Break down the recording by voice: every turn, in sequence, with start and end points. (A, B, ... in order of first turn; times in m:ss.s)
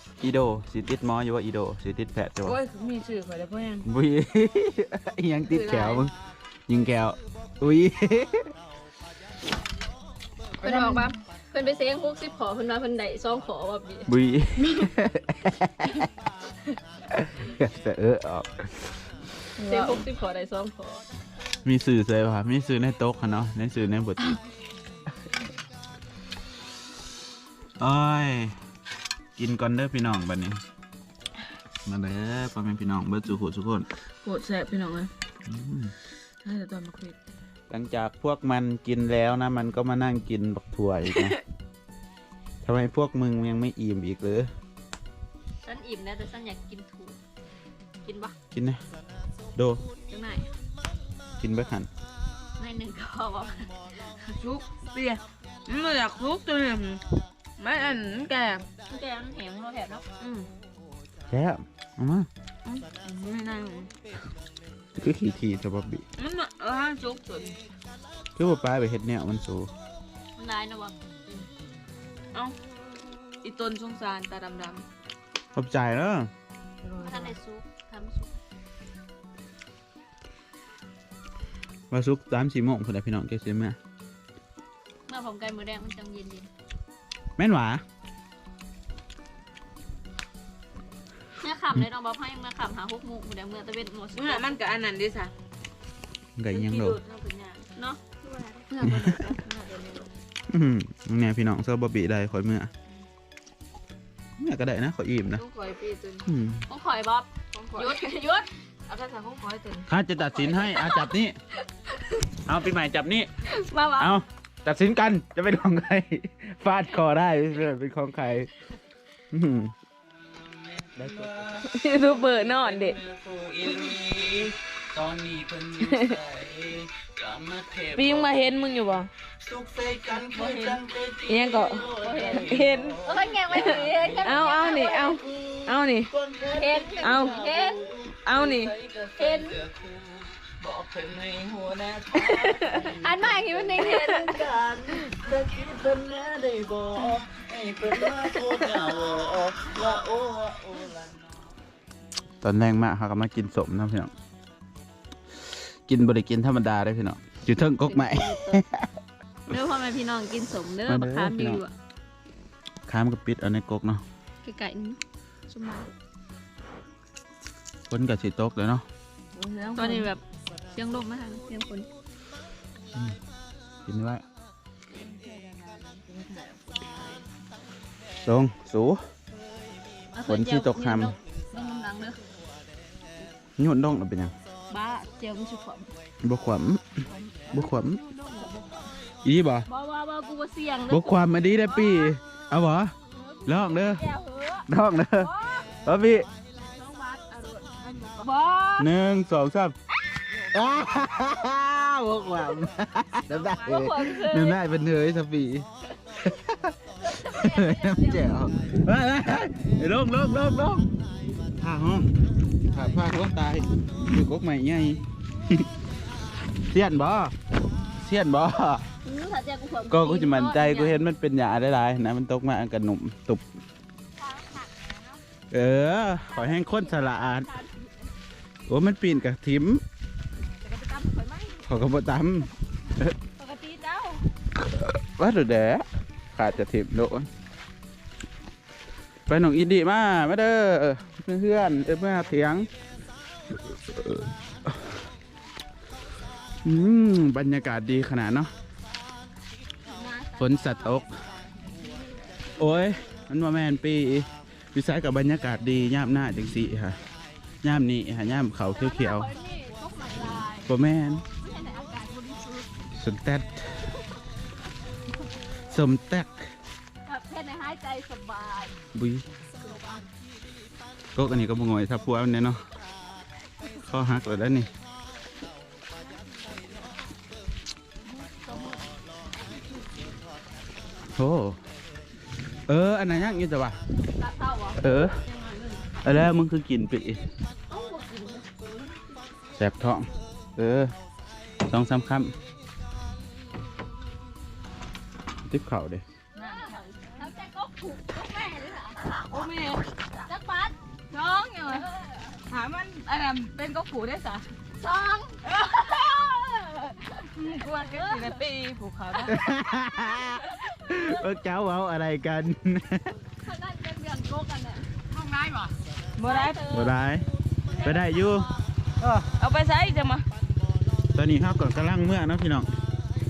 0:00.2-0:02.6 A
0:02.4-0:03.9 B
0:03.8-0:06.1 A
0:05.5-0:06.1 B
0:06.7-0:08.5 A
0:10.6-0:14.1 C
0:10.6-0:11.1 B
0:14.1-0:16.1 A
0:14.6-0:14.9 B
0:17.1-0:19.0 A
0:19.6-0:20.0 B
0:19.7-0:21.0 C
0:21.6-0:24.4 A
0:27.8-0:28.6 A
0:29.4-0:30.6 A
0:31.8-0:33.9 A
0:34.2-0:35.1 B
0:35.4-0:35.9 A
0:36.4-0:37.2 B
0:37.7-0:41.4 A
0:41.1-0:41.4 B
0:42.6-0:44.5 A
0:45.6-0:47.2 C
0:48.0-0:48.3 C
0:48.5-0:48.8 A
0:49.6-0:49.8 A
0:50.1-0:50.5 C
0:51.4-0:51.9 A
0:52.6-0:54.3 C
0:54.4-0:58.6 B
0:58.9-1:00.0 C
1:00.2-1:00.5 B
1:01.3-1:02.3 A
1:02.6-1:03.9 B
1:05.0-1:06.0 A
1:06.2-1:07.6 B
1:08.4-1:09.7 A
1:10.4-1:11.0 C
1:13.4-1:14.8 B
1:15.5-1:16.3 A
1:16.8-1:17.3 B
1:17.0-1:18.3 C
1:21.9-1:23.8 A
1:25.1-1:26.5 C
1:27.4-1:27.8 A
1:31.4-1:34.6 C
1:34.1-1:35.3 B
1:36.4-1:37.0 A
1:36.5-1:37.7 B
1:37.8-1:38.7 C
1:38.7-1:40.1 B
1:38.8-1:39.1 A
1:40.5-1:42.7 A
1:44.4-1:45.4 A
1:45.3-1:46.2 B
1:46.2-1:46.6 A
1:46.7-1:48.5 C
1:47.5-1:48.0 B
1:48.9-1:49.9 B
1:49.9-1:51.4 A
1:50.2-1:51.1 C
1:52.4-1:53.3 A
1:53.5-1:54.2 C
1:54.0-1:58.5 A
1:59.3-1:59.7 A
2:00.9-2:01.6 A
2:01.6-2:03.0 B
2:02.2-2:08.5 A
2:05.8-2:06.2 B
2:08.0-2:09.1 B
2:09.4-2:31.2 A
2:10.1-2:10.8 C
2:11.2-2:16.1 B
2:12.0-2:15.2 C
2:16.5-2:17.9 C
2:17.0-2:17.4 B
2:18.2-2:18.8 B
2:19.2-2:19.6 C
2:22.1-2:22.9 B
2:22.8-2:24.5 C
2:23.8-2:24.2 B
2:28.0-2:28.7 B
2:32.4-2:34.1 A
2:35.4-2:38.9 A
2:37.8-2:38.6 C
2:39.5-2:41.7 C
2:40.8-2:41.6 A
2:42.9-2:44.0 A
2:44.4-2:45.0 C
2:45.5-2:45.9 B
2:47.9-2:48.8 A
2:49.3-2:50.1 B
2:49.8-2:50.2 C
2:50.7-2:51.9 C
2:53.8-2:54.2 A
2:54.9-2:57.2 B
2:58.2-2:59.0 A
3:00.1-3:02.2 C
3:00.2-3:01.1 A
3:03.6-3:04.3 A
3:04.7-3:05.9 C
3:06.2-3:08.0 A
3:07.3-3:08.8 B
3:09.2-3:09.7 A
3:09.7-3:12.2 C
3:10.9-3:12.9 A
3:13.2-3:15.7 C
3:13.4-3:14.0 A
3:14.7-3:15.3 A
3:15.8-3:16.3 A
3:16.6-3:18.3 B
3:18.2-3:18.9 C
3:18.8-3:19.7 A
3:20.5-3:25.7 A
3:23.3-3:24.6 C
3:26.2-3:30.9 A
3:27.0-3:28.3 C
3:31.6-3:32.2 A
3:32.7-3:35.7 A
3:36.7-3:37.3 A
3:37.9-3:38.8 A
3:39.0-3:41.0 C
3:39.9-3:43.4 A
3:44.2-3:44.6 C
3:44.7-3:45.0 B
3:45.5-3:47.5 A
3:46.3-3:48.1 C
3:48.7-3:49.8 A
3:50.6-3:51.7 C
3:51.6-3:53.1 A
3:53.4-3:54.3 C
3:54.5-3:57.3 A
3:59.3-4:02.7 A
4:03.5-4:05.0 A
4:06.6-4:08.5 A
4:09.8-4:12.6 C
4:10.4-4:11.1 A
4:11.8-4:12.1 B
4:12.6-4:17.0 A
4:17.6-4:19.3 A
4:18.7-4:20.7 C
4:20.6-4:21.2 A
4:21.4-4:22.7 C
4:23.0-4:23.9 A
4:25.7-4:26.5 A
4:27.0-4:28.8 C
4:28.9-4:29.2 A
4:29.6-4:30.1 C
4:31.1-4:32.6 A
4:33.8-4:34.7 A
4:36.3-4:36.6 B
4:38.1-4:38.8 B
4:41.1-4:41.6 A
4:42.7-4:43.8 A
4:44.1-4:45.9 C
4:44.8-4:45.2 A
4:46.0-4:47.2 A
4:47.7-4:49.2 C
4:49.5-4:50.9 A
4:51.6-4:52.3 A
4:55.5-4:56.0 A
4:56.3-4:56.8 B
4:56.3-4:59.0 C
4:59.3-5:00.2 B
5:00.3-5:00.7 C
5:01.1-5:01.8 B
5:01.6-5:02.4 C
5:02.5-5:04.4 B
5:04.8-5:08.3 C
5:05.4-5:06.0 B
5:07.3-5:09.4 B
5:09.3-5:13.2 A
5:10.4-5:11.3 C
5:13.2-5:14.9 C
5:15.2-5:16.6 B
5:16.2-5:17.0 C
5:16.7-5:17.2 A
5:17.6-5:18.6 C
5:17.8-5:19.3 A
5:19.4-5:20.2 B
5:21.1-5:22.8 A